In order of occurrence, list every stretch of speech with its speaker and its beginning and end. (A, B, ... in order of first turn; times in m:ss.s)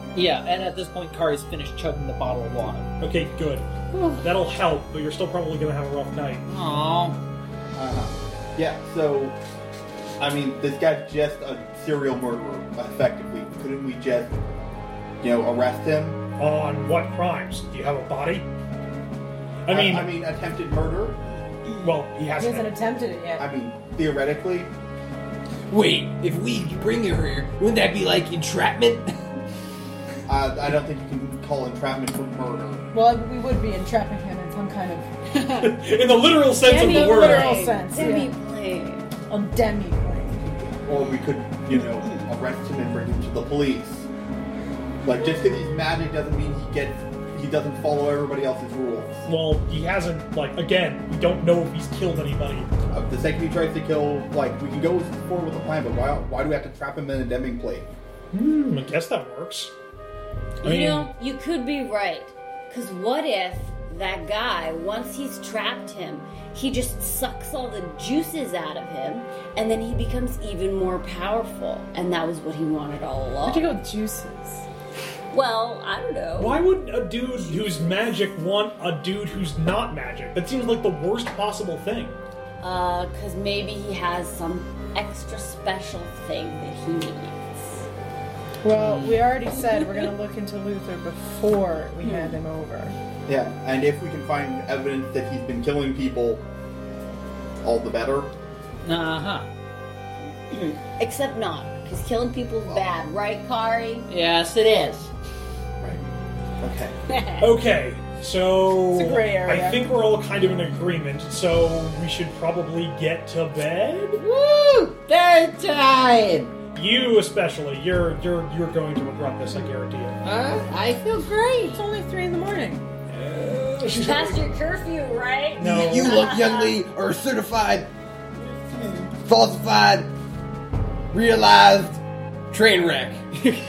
0:00.2-0:02.9 A
0:03.0-0:03.7 B
0:03.9-0:04.2 A
0:04.2-0:06.5 B
0:06.5-0:07.2 A
0:07.8-0:09.4 C
0:10.2-0:14.3 C
0:15.2-0:16.2 C
0:16.4-0:18.5 B
0:19.6-0:20.1 B
0:19.7-0:21.2 C
0:21.8-0:22.8 B
0:22.4-0:23.5 D
0:23.4-0:24.7 C
0:25.7-0:29.1 E
0:30.3-0:32.8 C
0:32.9-0:35.1 D
0:35.4-0:35.7 F
0:35.6-0:37.6 B
0:36.6-0:39.1 F
0:36.7-0:38.3 D
0:39.3-0:40.4 D
0:40.5-0:44.1 C
0:41.7-0:42.3 F
0:45.0-0:49.2 C
0:49.3-0:52.7 B
0:52.9-0:57.9 C
0:58.3-0:59.7 B
1:00.6-1:01.1 B
1:00.6-1:13.7 F
1:13.4-1:14.7 D
1:15.3-1:16.6 F
1:16.4-1:22.2 B
1:22.6-1:27.8 F
1:28.6-1:33.0 D
1:28.8-1:29.2 A
1:29.7-1:30.1 F
1:32.0-1:32.4 F
1:33.3-1:36.4 C
1:37.6-1:38.3 C
1:38.8-1:39.5 A
1:40.5-1:44.1 F
1:44.1-1:45.1 A
1:46.6-1:46.9 C
1:47.1-1:47.5 F
1:47.4-1:54.2 B
1:48.9-1:49.8 D
1:54.2-1:56.5 A
1:56.8-2:00.2 B
2:00.2-2:01.8 A
2:01.7-2:02.9 D
2:03.1-2:04.4 B
2:03.9-2:06.8 F
2:05.6-2:06.2 B
2:05.6-2:07.9 E
2:08.4-2:09.1 F
2:09.2-2:10.1 E
2:11.1-2:12.0 E
2:12.5-2:13.2 E